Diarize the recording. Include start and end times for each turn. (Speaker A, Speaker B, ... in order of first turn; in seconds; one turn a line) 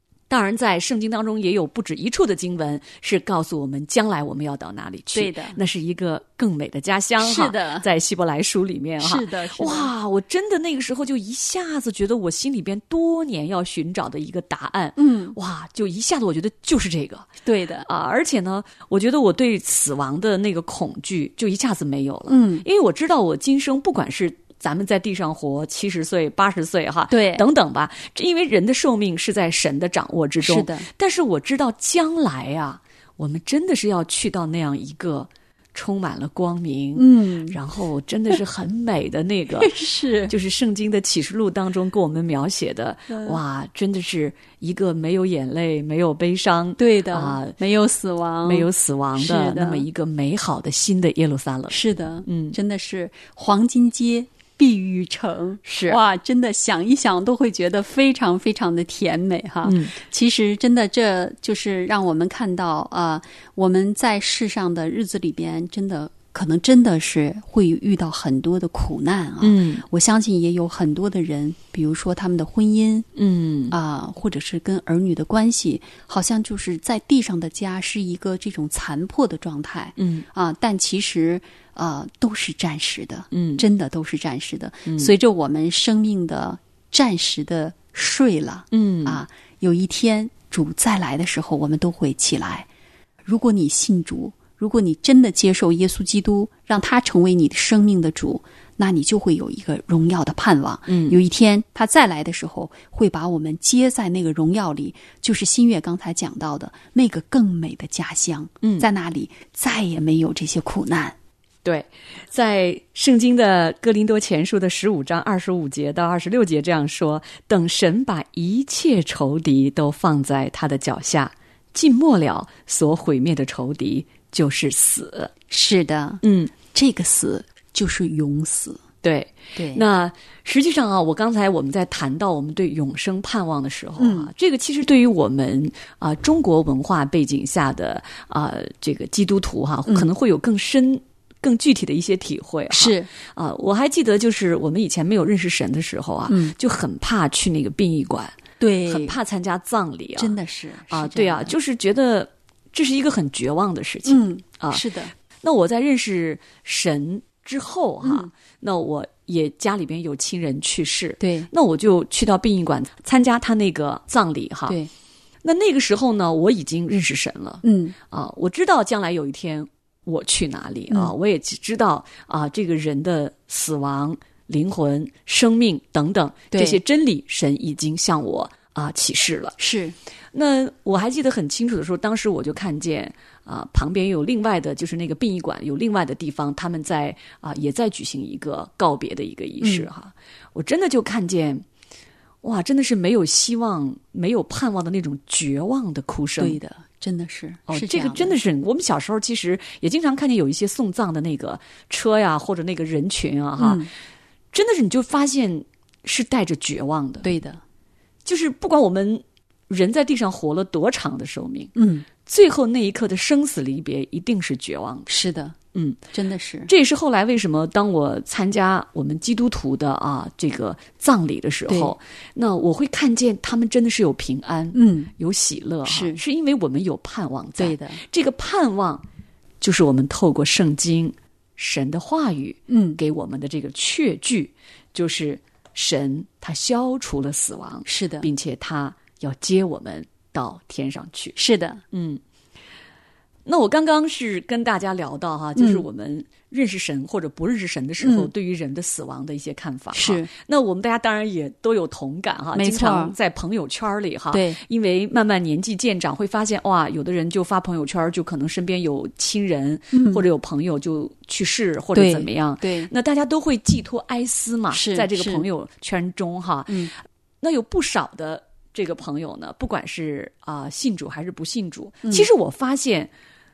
Speaker A: 0.3-17.3
Speaker B: 5.1-5.6
Speaker B: 7.2-7.9
Speaker B: 9.0-9.9
Speaker B: 15.0-15.4
Speaker B: 17.4-17.9
Speaker A: 17.8-39.8
Speaker B: 22.3-22.6
Speaker B: 27.1-27.4
Speaker B: 30.4-30.9
Speaker B: 36.9-37.6
Speaker B: 39.6-40.3
Speaker A: 40.3-47.5
Speaker B: 43.1-43.4
Speaker B: 46.8-49.8
Speaker A: 48.4-52.6
Speaker B: 51.7-73.1
Speaker A: 55.7-56.0
Speaker A: 59.6-60.0
Speaker A: 69.4-69.8
Speaker A: 73.1-73.8
Speaker B: 73.7-92.7
Speaker A: 80.0-80.2
Speaker A: 83.3-83.6
Speaker A: 84.9-85.1
Speaker A: 88.7-89.2
Speaker B: 93.2-111.2
Speaker A: 100.9-101.2
Speaker A: 108.6-108.9
Speaker A: 111.6-125.3
Speaker B: 125.5-128.8
Speaker A: 126.2-126.5
Speaker A: 129.0-150.3
Speaker B: 129.5-129.8
Speaker B: 134.0-134.3
Speaker B: 142.7-143.1
Speaker B: 146.3-146.5
Speaker B: 148.6-149.2
Speaker B: 150.2-151.6
Speaker A: 150.9-154.9
Speaker B: 154.0-155.1
Speaker A: 155.4-164.8
Speaker B: 158.0-158.3
Speaker B: 161.2-161.5
Speaker A: 165.4-179.6
Speaker B: 167.6-167.9
Speaker B: 176.5-176.8
Speaker B: 179.6-179.9
Speaker A: 180.3-191.6
Speaker B: 189.6-189.9
Speaker A: 192.4-196.6
Speaker B: 196.4-198.4
Speaker A: 197.7-203.9
Speaker B: 203.6-203.9
Speaker A: 204.5-207.3
Speaker B: 207.2-207.6
Speaker A: 208.2-215.1
Speaker B: 211.8-212.1
Speaker B: 215.1-215.6
Speaker A: 215.7-216.0
Speaker B: 216.1-216.7
Speaker A: 216.7-229.0
Speaker B: 221.7-221.9
Speaker B: 224.7-225.1
Speaker B: 225.8-226.2
Speaker B: 227.6-228.0
Speaker A: 229.6-241.4
Speaker B: 232.7-233.0
Speaker B: 237.8-238.3
Speaker B: 241.4-241.8
Speaker A: 241.9-242.2
Speaker A: 243.4-266.9
Speaker B: 245.6-245.8
Speaker B: 248.0-248.3
Speaker B: 249.9-250.3
Speaker B: 252.5-253.2
Speaker B: 254.3-254.6
Speaker B: 259.9-260.2
Speaker B: 261.9-262.9
Speaker B: 264.7-265.4
Speaker A: 267.4-273.1
Speaker B: 272.0-272.3